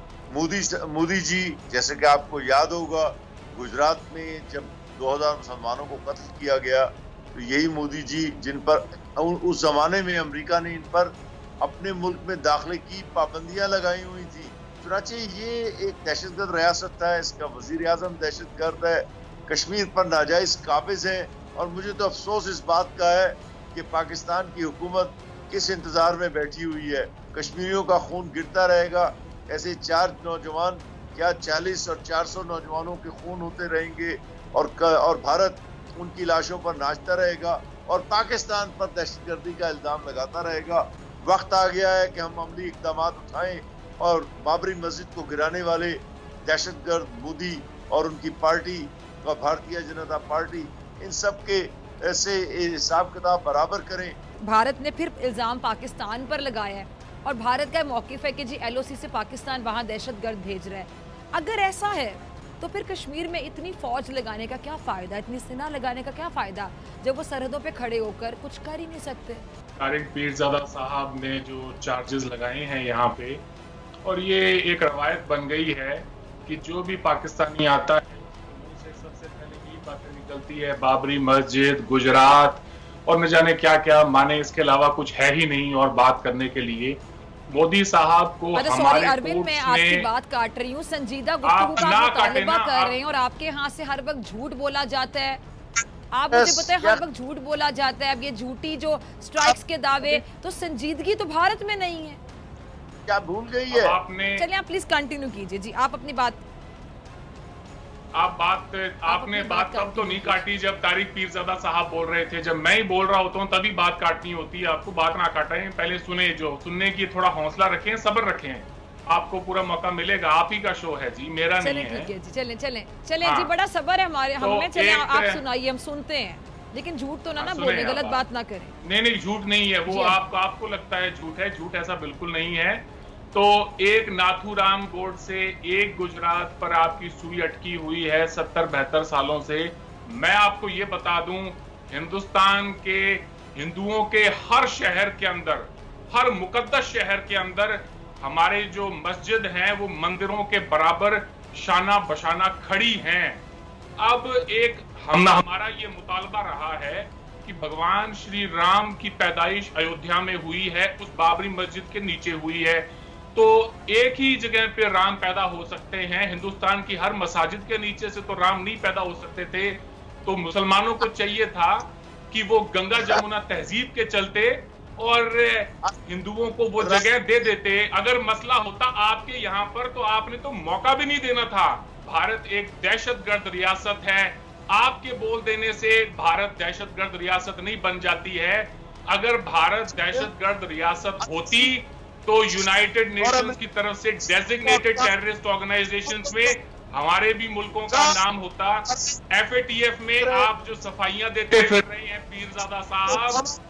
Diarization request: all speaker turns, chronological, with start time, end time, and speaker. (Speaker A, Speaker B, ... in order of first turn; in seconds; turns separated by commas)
Speaker A: 0.3-54.2, Speaker B: 54.4-69.5, Speaker C: 69.8-73.4, Speaker C: 74.0-87.0, Speaker C: 87.5-90.1, Speaker B: 88.6-95.4, Speaker C: 91.4-93.0, Speaker B: 96.1-102.2, Speaker A: 96.3-97.0, Speaker A: 99.4-100.2, Speaker A: 103.1-104.0, Speaker C: 103.7-104.5, Speaker B: 104.4-106.4, Speaker C: 108.2-122.1, Speaker B: 109.0-110.4, Speaker B: 121.6-128.8, Speaker C: 123.2-123.5, Speaker C: 124.4-125.4, Speaker C: 127.4-128.2, Speaker C: 128.8-153.4, Speaker B: 129.9-130.2, Speaker C: 154.0-203.4, Speaker A: 173.0-173.2, Speaker A: 176.8-177.1, Speaker A: 189.9-190.3, Speaker A: 191.2-191.7, Speaker A: 193.2-193.6, Speaker A: 194.6-195.1, Speaker A: 196.1-196.5, Speaker A: 197.9-198.2, Speaker A: 198.9-199.2, Speaker A: 200.2-200.5, Speaker A: 203.1-203.6